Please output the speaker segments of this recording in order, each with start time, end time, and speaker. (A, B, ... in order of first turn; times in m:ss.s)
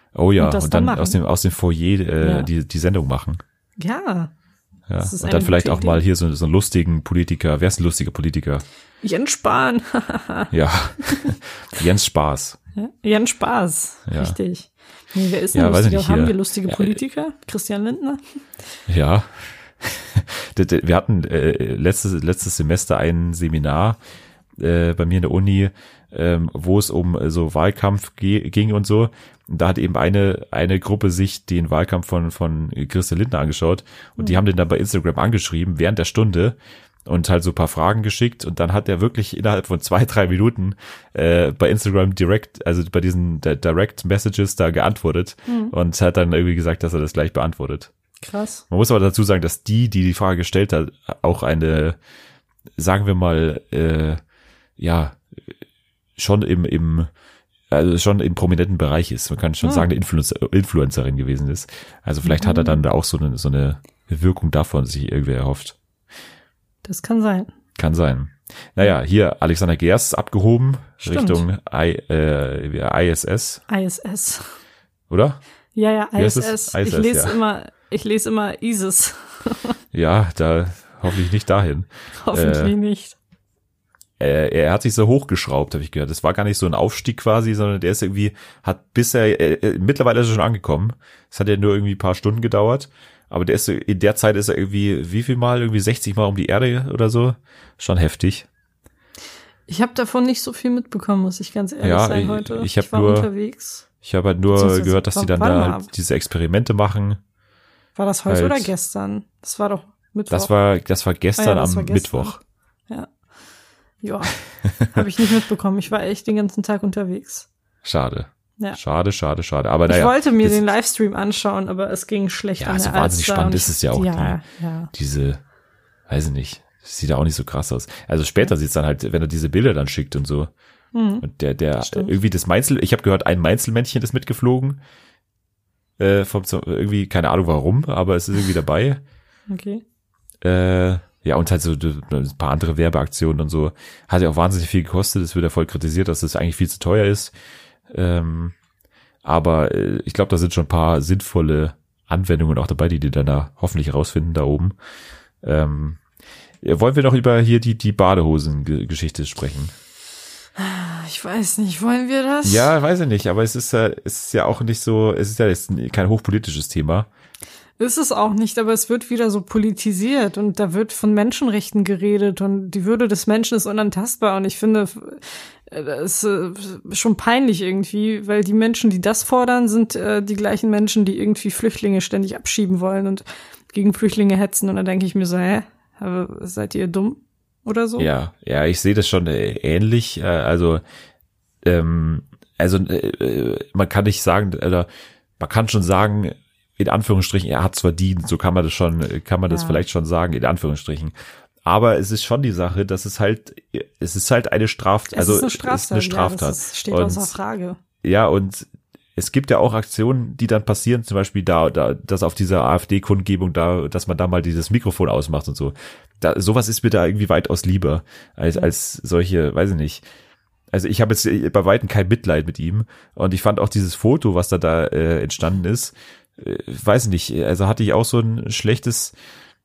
0:00.2-0:03.4 A
0:00.4-0:01.2 B
0:02.2-0:02.5 B
0:03.8-0:04.3 B
0:04.9-0:08.6 A
0:05.0-0:06.0 B
0:09.0-0:10.5 B
0:10.5-0:12.6 A
0:11.0-0:11.3 B
0:12.8-0:18.4 B
0:14.1-0:14.4 A
0:15.5-0:17.0 A
0:18.9-0:24.0 A
0:24.6-0:47.9 A
0:45.5-0:45.7 B
0:48.2-0:48.6 B
0:48.7-0:52.0 A
0:52.8-0:54.2 A
0:54.8-0:55.2 A
0:56.2-0:57.1 A
0:57.7-1:05.8 A
0:59.6-0:59.9 B
1:02.2-1:02.8 B
1:06.8-1:07.5 B
1:07.8-1:13.6 A
1:11.0-1:11.4 B
1:13.7-1:14.6 B
1:15.1-1:15.4 A
1:15.8-1:19.8 B
1:16.2-1:17.4 A
1:19.9-1:22.7 A
1:22.2-1:23.2 B
1:24.2-1:38.5 A
1:39.7-1:43.8 B
1:41.8-1:43.3 A
1:44.0-1:47.2 A
1:44.5-1:45.9 B
1:48.0-1:50.5 B
1:48.3-1:48.7 A
1:50.3-1:52.4 A
1:51.4-1:52.4 B
1:54.0-1:54.4 B
1:54.6-1:55.0 A
1:54.9-1:57.5 B
1:57.8-2:00.6 A
1:59.9-2:04.9 B
2:02.6-2:04.4 A
2:04.9-2:05.4 A
2:06.1-2:10.5 A
2:10.9-2:11.2 B
2:11.2-2:14.8 A
2:11.9-2:12.1 B
2:16.0-2:19.0 A
2:19.5-2:19.8 B
2:20.4-2:27.3 A
2:27.9-2:28.6 A
2:29.2-2:34.7 A
2:35.4-2:36.0 A
2:36.6-2:39.8 A
2:40.6-2:42.7 B
2:42.4-2:47.1 A
2:47.8-3:08.1 B
3:08.0-3:10.8 A
3:11.6-3:14.9 A
3:15.4-3:21.1 A
3:19.5-3:19.8 B
3:21.7-3:27.4 A
3:25.1-3:27.8 B
3:28.0-3:40.0 A
3:40.7-3:49.1 A